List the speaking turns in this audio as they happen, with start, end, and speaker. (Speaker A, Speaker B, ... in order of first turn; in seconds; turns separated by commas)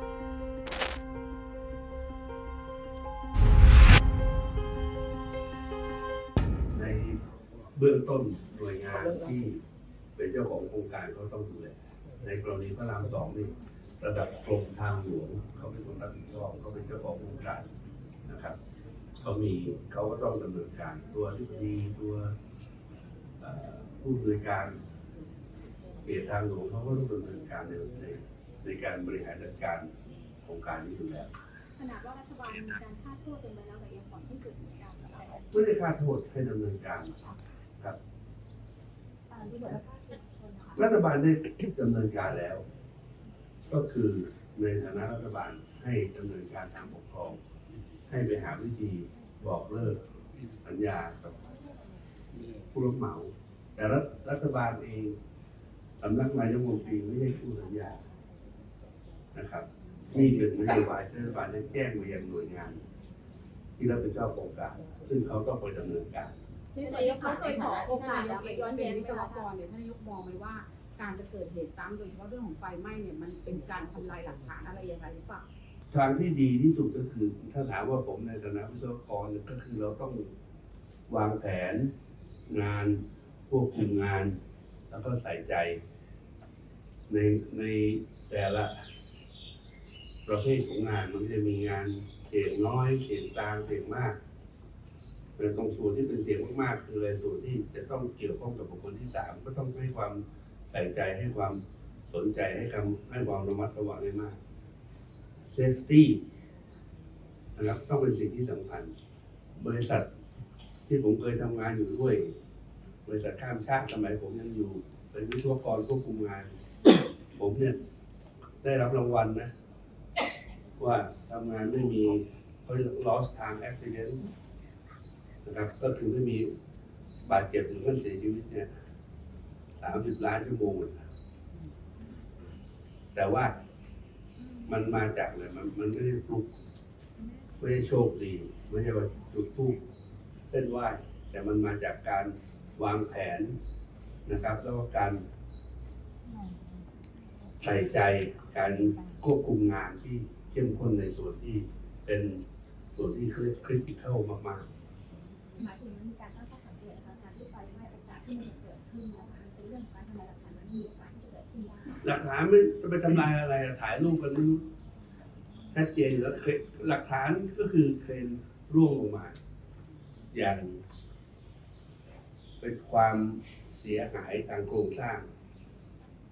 Speaker A: 6.7-7.2, Speaker A: 7.7-9.6, Speaker A: 10.2-17.7, Speaker A: 18.2-18.5, Speaker A: 19.2-22.3, Speaker A: 23.4-24.8, Speaker A: 26.0-31.3, Speaker B: 31.8-35.4, Speaker A: 35.5-38.0, Speaker B: 39.3-40.8, Speaker A: 40.7-42.6, Speaker A: 43.7-47.4, Speaker A: 48.1-51.4, Speaker A: 52.7-55.2, Speaker A: 56.0-58.0, Speaker A: 59.3-62.8, Speaker A: 63.8-66.3, Speaker B: 66.7-69.5, Speaker C: 66.8-75.5, Speaker A: 75.9-80.3, Speaker A: 81.1-81.9, Speaker A: 82.5-84.3, Speaker A: 84.9-85.8, Speaker A: 87.1-88.9, Speaker A: 90.2-94.2, Speaker A: 95.4-104.4, Speaker A: 105.5-106.2, Speaker A: 107.5-108.9, Speaker A: 109.5-110.1, Speaker A: 110.8-112.3, Speaker A: 113.0-116.5, Speaker A: 117.3-117.8, Speaker A: 118.6-119.5, Speaker A: 120.8-124.2, Speaker A: 125.4-126.5, Speaker A: 127.2-128.7, Speaker A: 129.8-131.0, Speaker A: 133.1-133.6, Speaker A: 134.7-136.6, Speaker A: 137.6-139.8, Speaker A: 140.5-143.6, Speaker A: 144.2-145.2, Speaker A: 147.6-152.4, Speaker A: 152.9-154.7, Speaker B: 155.5-162.0, Speaker A: 162.0-164.7, Speaker A: 165.7-169.3, Speaker A: 170.3-170.8, Speaker A: 172.6-175.3